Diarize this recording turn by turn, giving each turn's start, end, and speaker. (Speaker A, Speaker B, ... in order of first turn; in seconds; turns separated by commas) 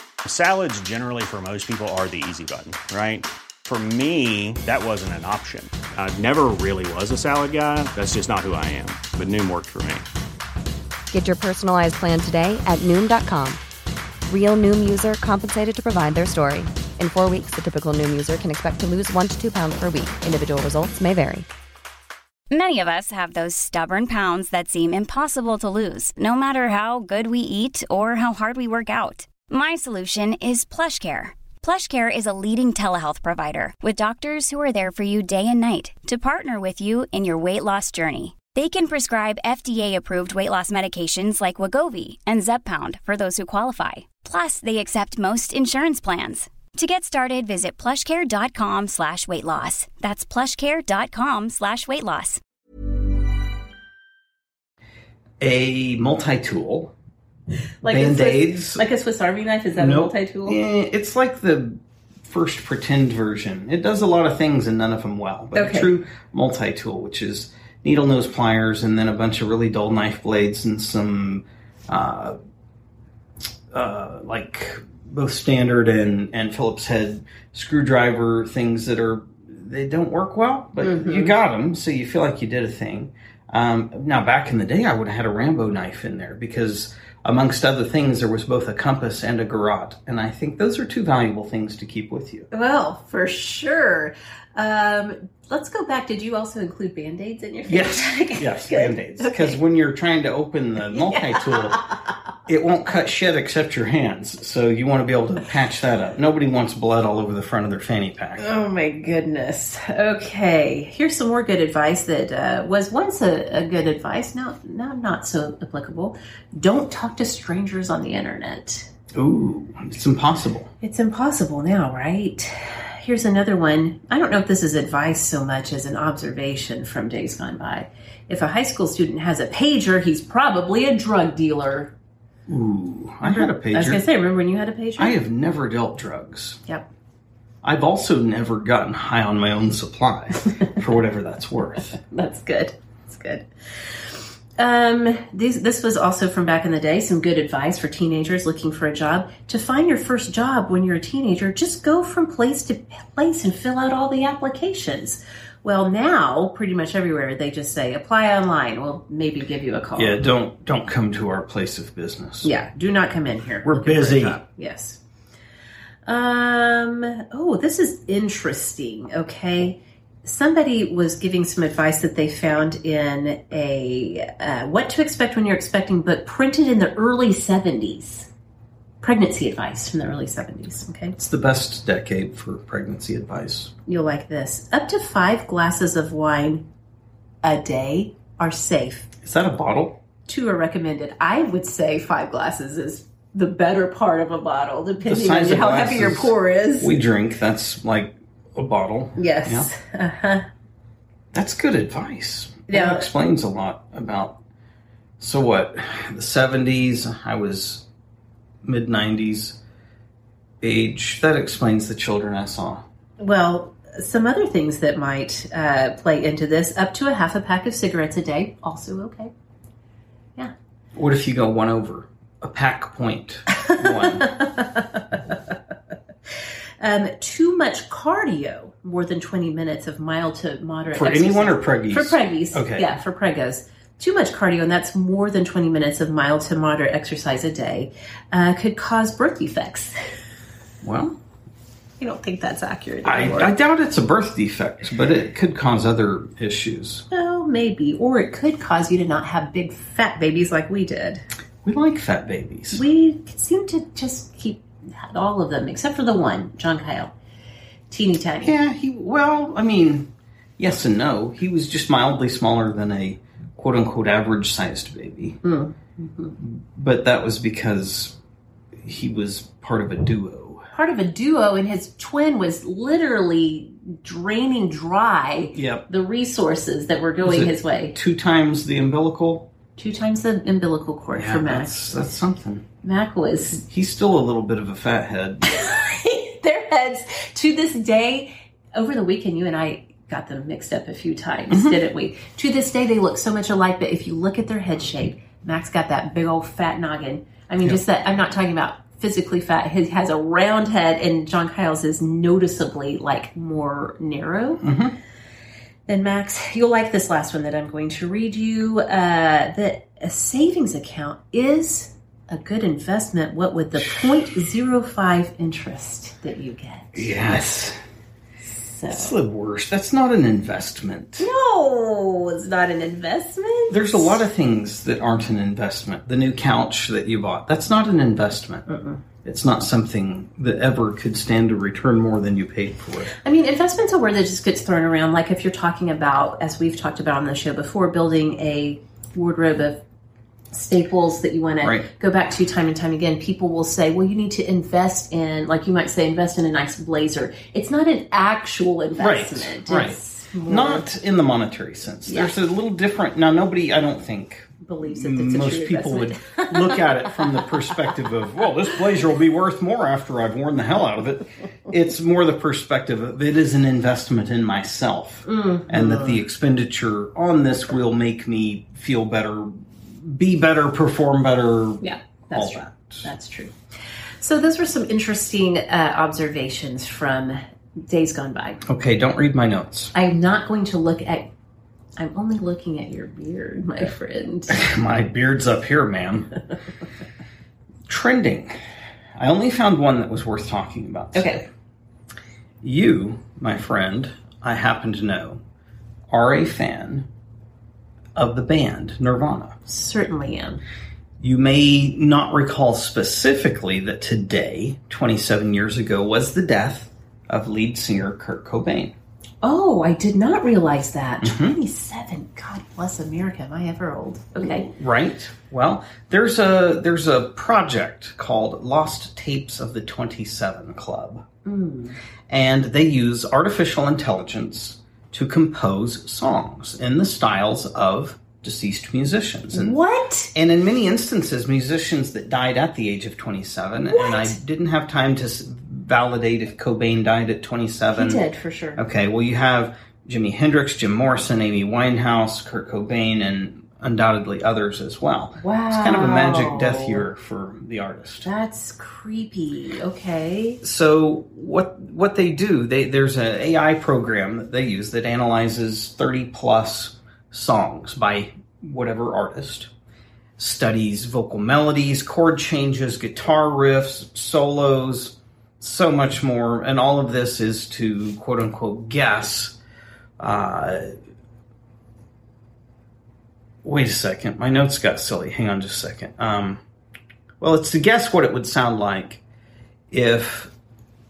Speaker A: 0.2-10.0, Speaker B: 11.1-13.6, Speaker B: 14.3-21.5, Speaker C: 22.5-52.4, Speaker D: 55.4-56.9, Speaker E: 57.8-60.6, Speaker D: 57.9-58.8, Speaker D: 59.8-72.3, Speaker E: 65.5-65.9, Speaker D: 73.7-92.5, Speaker E: 80.8-81.3, Speaker E: 92.5-99.6, Speaker D: 97.7-101.8, Speaker E: 100.9-101.9, Speaker D: 102.5-108.4, Speaker E: 108.4-118.9, Speaker D: 119.1-120.7, Speaker E: 120.8-131.9, Speaker D: 132.5-134.0, Speaker E: 133.2-135.2, Speaker D: 135.0-136.6, Speaker D: 137.6-142.0, Speaker E: 142.1-160.2, Speaker D: 159.9-162.5, Speaker E: 162.4-165.0, Speaker D: 163.6-164.4, Speaker E: 166.1-178.3, Speaker E: 179.0-181.2, Speaker D: 181.2-183.7, Speaker E: 183.9-186.7, Speaker E: 187.4-189.1, Speaker D: 189.2-190.0, Speaker E: 190.2-197.0, Speaker D: 195.0-199.7, Speaker E: 199.2-200.4, Speaker D: 201.3-204.4, Speaker E: 202.7-203.0, Speaker D: 205.2-207.8, Speaker D: 208.6-209.6, Speaker D: 210.6-212.8, Speaker E: 213.2-219.3, Speaker D: 220.9-224.3, Speaker E: 223.5-225.2, Speaker E: 226.8-239.9, Speaker D: 230.9-232.9, Speaker D: 240.8-241.2, Speaker E: 242.0-243.5, Speaker D: 243.0-247.0, Speaker E: 247.1-251.2, Speaker D: 251.6-252.8, Speaker E: 252.7-257.1, Speaker E: 257.9-258.5, Speaker D: 258.4-265.4, Speaker E: 265.4-266.3, Speaker D: 266.4-268.1, Speaker D: 268.8-270.6, Speaker E: 270.7-277.9, Speaker D: 275.5-275.9, Speaker D: 277.2-279.5, Speaker E: 279.8-281.9, Speaker D: 281.1-282.6, Speaker E: 282.8-283.6, Speaker D: 283.6-285.5, Speaker E: 285.4-304.6, Speaker D: 291.5-291.8, Speaker D: 304.6-304.9, Speaker E: 305.9-317.2, Speaker D: 316.9-317.8, Speaker E: 318.4-319.1, Speaker D: 318.9-321.3, Speaker E: 321.2-324.2, Speaker D: 323.7-328.6, Speaker E: 328.7-329.0, Speaker D: 329.2-333.1, Speaker E: 333.2-339.8, Speaker E: 340.5-350.9, Speaker D: 341.6-341.9, Speaker D: 349.0-373.1, Speaker E: 352.1-352.3, Speaker E: 354.6-357.7, Speaker E: 365.2-366.2, Speaker E: 371.8-373.5, Speaker E: 374.2-378.6, Speaker D: 378.6-379.9, Speaker E: 379.9-381.3, Speaker E: 382.0-384.6, Speaker D: 384.5-386.3, Speaker D: 387.9-388.5, Speaker D: 389.1-391.5, Speaker E: 391.1-391.4, Speaker D: 392.6-395.4, Speaker D: 396.1-397.1, Speaker D: 398.1-399.6, Speaker E: 399.6-400.6, Speaker D: 401.2-408.9, Speaker E: 409.4-414.7, Speaker D: 411.2-411.6, Speaker D: 414.4-421.2, Speaker E: 421.4-422.0, Speaker D: 422.3-429.8, Speaker E: 429.5-430.3, Speaker D: 430.3-438.2, Speaker E: 433.9-434.4, Speaker E: 437.9-438.8, Speaker D: 438.8-448.3, Speaker E: 445.4-447.1, Speaker E: 448.2-450.6, Speaker D: 450.6-459.7, Speaker D: 460.4-469.6, Speaker D: 470.2-470.9, Speaker D: 473.6-476.6, Speaker D: 477.4-479.2, Speaker D: 479.9-480.5